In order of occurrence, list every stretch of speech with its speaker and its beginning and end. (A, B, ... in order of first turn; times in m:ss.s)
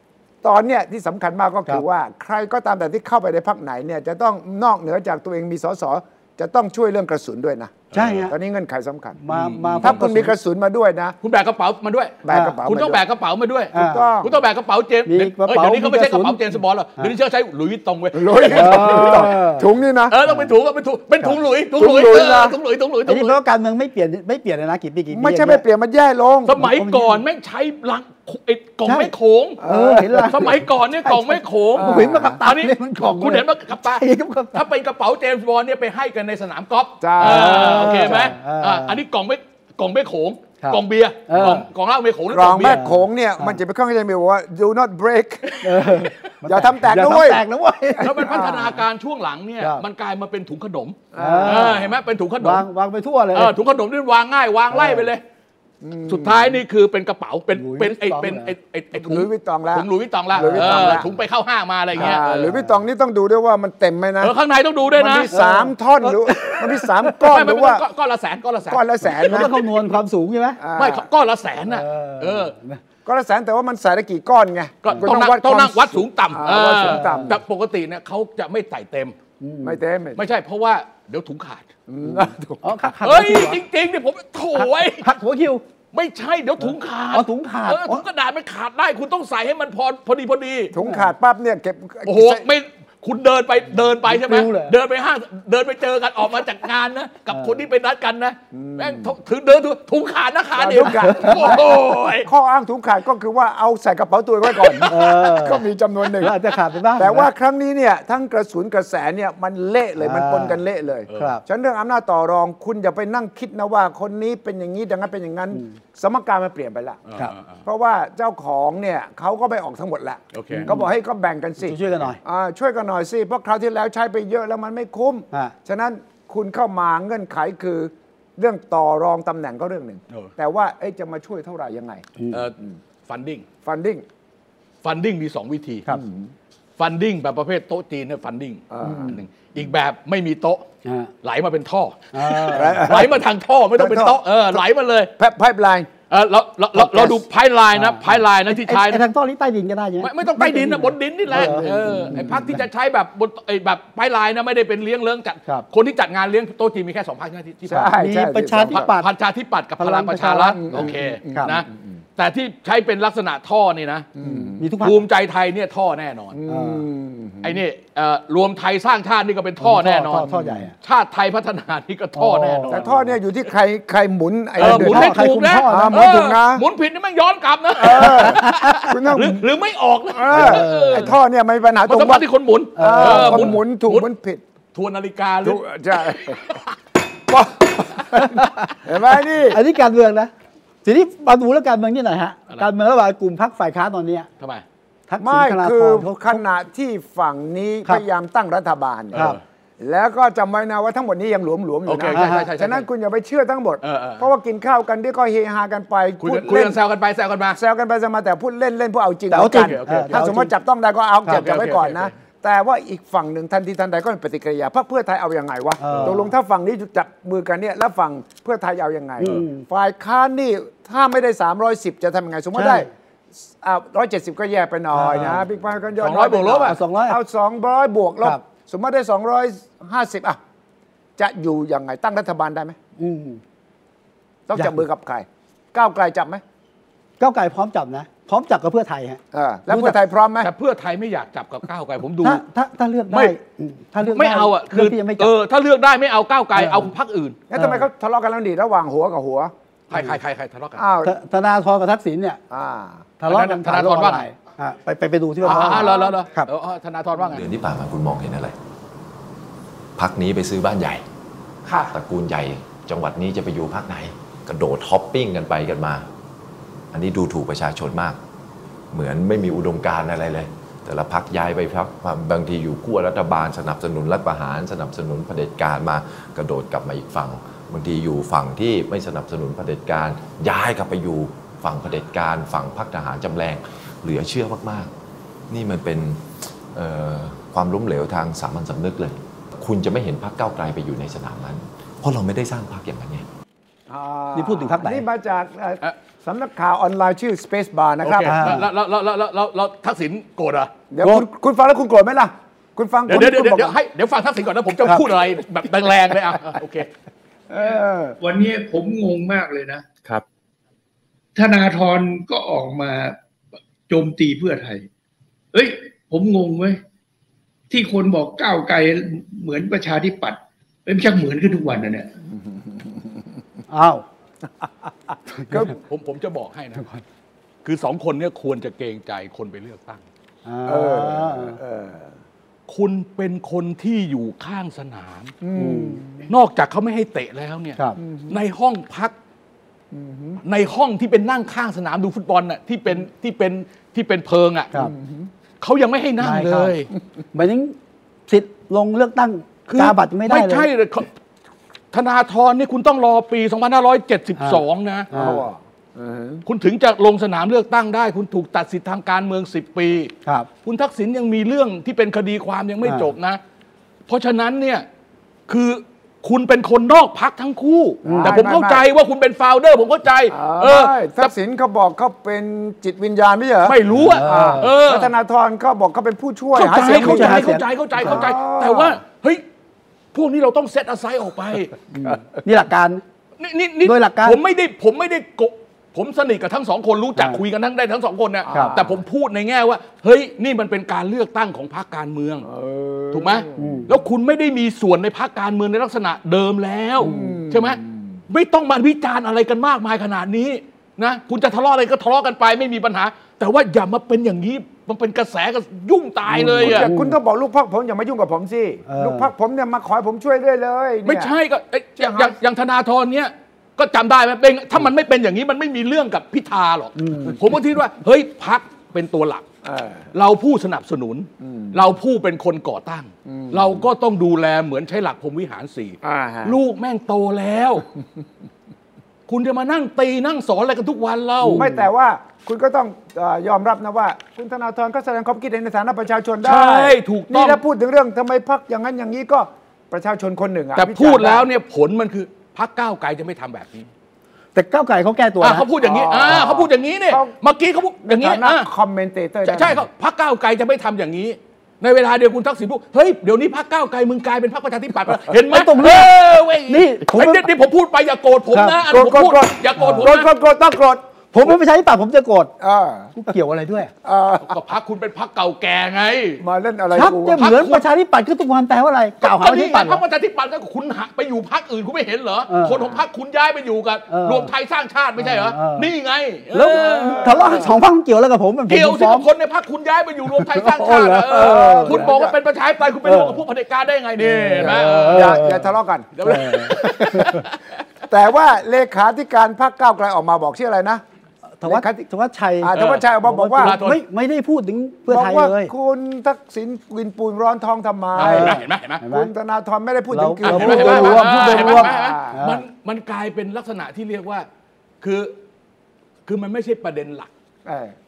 0:00.4-0:09.2 A
0:07.9-0:08.3 B
0:07.9-0:08.3 C
0:09.2-0:10.3 C
0:09.3-0:10.0 B
0:09.8-0:11.2 A
0:11.2-0:19.3 B
0:12.2-0:13.0 A
0:12.3-0:12.6 C
0:13.7-0:14.1 C
0:13.7-0:14.4 A
0:15.1-0:17.1 C
0:18.1-0:20.2 A
0:18.5-0:19.7 C
0:20.1-0:23.4 B
0:21.8-0:22.6 A
0:23.1-0:25.6 C
0:25.1-0:26.6 A
0:26.4-0:29.6 B
0:26.6-0:27.2 C
0:28.8-0:34.6 C
0:29.6-0:30.4 A
0:30.2-0:42.8 B
0:31.8-0:32.4 A
0:37.0-0:38.3 A
0:37.2-0:39.0 C
0:40.6-0:41.6 C
0:42.3-0:45.8 A
0:42.6-0:43.6 C
0:45.6-0:48.4 C
0:46.4-0:47.4 A
0:48.0-0:48.8 A
0:48.0-0:52.7 B
0:51.1-0:51.9 A
0:51.2-0:53.5 C
0:53.3-0:55.2 B
0:54.7-0:55.1 C
0:55.8-0:56.6 A
0:56.1-1:02.5 B
0:57.6-0:58.5 C
0:59.0-1:01.1 A
1:00.4-1:01.0 C
1:02.0-1:04.4 A
1:02.0-1:02.7 C
1:04.2-1:05.3 B
1:04.9-1:07.8 A
1:05.3-1:07.2 C
1:07.2-1:09.5 B
1:08.7-1:09.6 A
1:09.1-1:10.6 C
1:10.6-1:11.0 A
1:10.8-1:12.5 B
1:11.7-1:12.8 C
1:13.1-1:17.4 A
1:14.8-1:19.2 B
1:16.8-1:17.4 C
1:19.4-1:19.8 C
1:19.6-1:20.2 A
1:20.2-1:21.7 B
1:21.9-1:22.7 A
1:22.0-1:23.6 C
1:23.0-1:25.1 B
1:24.6-1:25.6 C
1:25.9-1:30.7 B
1:26.6-1:28.0 C
1:30.7-1:32.4 A
1:30.8-1:31.1 C
1:32.1-1:42.3 B
1:34.0-1:34.7 C
1:37.3-1:37.6 C
1:38.5-1:39.1 A
1:40.6-1:46.4 A
1:40.8-1:41.6 C
1:44.6-1:44.9 B
1:44.9-1:45.6 C
1:46.2-1:47.3 C
1:47.0-1:57.0 A
1:50.0-1:50.6 C
1:51.1-1:51.4 B
1:51.1-1:51.4 C
1:57.1-1:57.6 B
1:57.6-2:12.1 A
2:00.3-2:00.7 B
2:00.6-2:00.9 C
2:01.6-2:02.2 C
2:13.1-2:13.4 B
2:13.6-2:14.0 A
2:14.8-2:15.9 B
2:15.9-2:16.3 A
2:16.8-2:20.6 B
2:18.7-2:19.2 A
2:20.8-2:21.1 C
2:21.2-2:25.1 B
2:22.1-2:22.9 C
2:22.5-2:23.2 A
2:23.8-2:24.6 A
2:25.2-2:25.9 A
2:26.1-2:29.0 B
2:26.8-2:27.2 A
2:27.8-2:32.4 C
2:30.0-2:37.9 B
2:31.3-2:32.6 A
2:37.7-2:38.9 A
2:37.8-2:39.1 C
2:38.7-2:44.1 B
2:39.8-2:41.5 C
2:40.5-2:42.0 A
2:44.2-2:44.7 A
2:44.2-2:45.0 C
2:44.8-2:46.4 B
2:46.3-2:47.6 A
2:46.5-2:46.8 C
2:47.4-2:50.3 B
2:49.6-2:50.7 C
2:50.3-2:50.6 A
2:50.8-2:52.9 B
2:52.2-2:53.1 C
2:52.7-2:56.6 A
2:54.6-3:01.1 B
2:54.6-2:56.1 C
2:57.8-2:59.4 A
2:58.3-2:58.9 C
3:00.1-3:02.3 A
3:00.3-3:01.1 C
3:01.9-3:04.1 B
3:02.8-3:03.6 C
3:02.8-3:04.4 A
3:04.7-3:05.6 B
3:05.4-3:06.6 A
3:07.3-3:09.6 A
3:08.2-3:08.7 C
3:09.5-3:10.3 C
3:10.8-3:14.3 C
3:15.1-3:16.4 C
3:15.2-3:19.3 A
3:19.1-3:19.4 B
3:19.8-3:26.8 A
3:21.9-3:22.9 B
3:22.1-3:22.5 C
3:23.8-3:24.3 B
3:26.2-3:27.6 B
3:27.6-3:42.9 A
3:29.3-3:30.5 C
3:29.5-3:30.3 B
3:31.3-3:32.1 B
3:35.8-3:36.3 C
3:39.2-3:39.6 C
3:42.6-3:42.9 C
3:43.4-3:50.4 A
3:44.9-3:45.4 C
3:46.0-3:46.8 B
3:46.7-3:47.2 C
3:51.2-3:52.8 A
3:53.0-3:53.4 C
3:54.5-3:56.4 A
3:57.2-4:00.0 C
3:59.3-4:00.5 A
4:00.4-4:02.4 B
4:02.2-4:05.3 C
4:04.0-4:07.4 B
4:06.6-4:06.9 C
4:07.5-4:09.5 A
4:07.6-4:07.9 C
4:09.9-4:10.8 B
4:10.8-4:11.2 A
4:11.0-4:12.4 C
4:12.5-4:13.0 A
4:13.2-4:16.5 C
4:13.3-4:14.3 B
4:15.4-4:17.5 B
4:15.5-4:16.1 A
4:17.3-4:18.6 D
4:20.0-4:21.0 D
4:21.7-4:21.9 B
4:21.9-4:26.0 D
4:26.9-4:28.2 D
4:28.9-4:44.9 D
4:45.5-4:53.3 D
4:53.9-4:58.5 A
4:54.4-4:55.0 C
4:58.0-5:00.7 B
4:58.3-4:58.7 C
5:00.9-5:03.8 A
5:03.1-5:06.9 B
5:07.5-5:08.2 A
5:08.2-5:09.9 E
5:11.4-5:13.2 E
5:13.9-5:14.9 E
5:15.5-5:16.8 E
5:17.7-5:22.1 E
5:23.7-5:24.0 C
5:25.4-5:25.7 C
5:25.7-5:26.8 B
5:27.6-5:30.0 B
5:30.4-5:31.6 C
5:30.7-5:32.2 A
5:32.7-5:35.4 B
5:35.4-5:36.3 A
5:35.6-5:36.0 C
5:36.3-5:39.1 B
5:38.0-5:38.4 A
5:39.9-5:40.4 A
5:40.4-5:44.7 B
5:44.8-5:45.3 A
5:45.6-5:46.9 B
5:46.2-5:46.7 C
5:47.3-5:47.8 C
5:48.3-5:50.7 C
5:49.7-5:51.1 B
5:51.9-5:55.1 B
5:54.4-5:55.4 C
5:55.1-5:56.4 A
5:56.4-6:00.1 B
6:00.6-6:03.4 B
6:04.1-6:04.9 B
6:05.5-6:11.3 B
6:08.0-6:08.8 A
6:08.0-6:08.4 C
6:10.3-6:19.0 A
6:13.6-6:15.1 B
6:14.0-6:14.7 C
6:16.6-6:19.4 B
6:16.6-6:18.3 C
6:20.1-6:21.7 B
6:21.9-6:23.0 C
6:23.4-6:32.5 B
6:23.8-6:24.4 C
6:28.5-6:29.0 A
6:32.4-6:33.8 A
6:33.1-6:46.9 B
6:33.6-6:33.9 C
6:37.0-6:37.4 C
6:37.0-6:38.2 A
6:46.3-6:47.2 C
6:46.5-6:51.3 A
6:48.9-6:49.3 C
6:51.0-6:59.4 B
6:52.0-6:52.3 A
6:57.0-6:57.4 C
6:59.6-7:00.1 A
7:00.1-7:07.9 B
7:01.4-7:01.8 A
7:03.3-7:03.8 A
7:06.0-7:06.6 A
7:09.3-7:11.6 B
7:11.4-7:11.9 C
7:11.5-7:21.5 A
7:16.4-7:17.6 B
7:20.8-7:23.9 B
7:24.6-7:25.7 C
7:25.4-7:28.7 B
7:25.8-7:27.3 A
7:28.0-7:29.8 A
7:29.4-7:40.3 B
7:35.5-7:36.2 C
7:36.7-7:37.5 C
7:38.5-7:38.8 C
7:38.9-7:41.0 A
7:39.8-7:40.1 C
7:41.3-7:42.5 C
7:42.6-7:43.1 A
7:43.2-7:43.9 C
7:44.0-7:44.6 A
7:44.4-7:46.4 B
7:46.4-7:47.4 A
7:46.9-7:50.0 C
7:47.4-7:47.8 B
7:49.2-7:57.7 B
7:52.5-7:52.8 C
7:54.1-7:54.5 C
7:55.2-7:55.9 C
7:56.5-7:59.3 C
7:56.8-7:57.8 A
7:58.7-8:05.4 B
8:00.3-8:02.1 C
8:01.3-8:02.4 A
8:03.0-8:03.4 C
8:04.2-8:05.7 C
8:04.6-8:06.1 A
8:06.2-8:07.6 B
8:06.2-8:07.4 C
8:08.1-8:11.0 A
8:11.6-8:15.7 C
8:11.6-8:12.0 A
8:12.6-8:13.8 A
8:12.7-8:14.0 B
8:15.1-8:22.4 A
8:18.2-8:19.0 B
8:18.2-8:19.3 C
8:20.1-8:22.6 C
8:20.4-8:24.5 B
8:25.0-8:25.4 B
8:26.3-8:27.3 B
8:27.7-8:28.0 A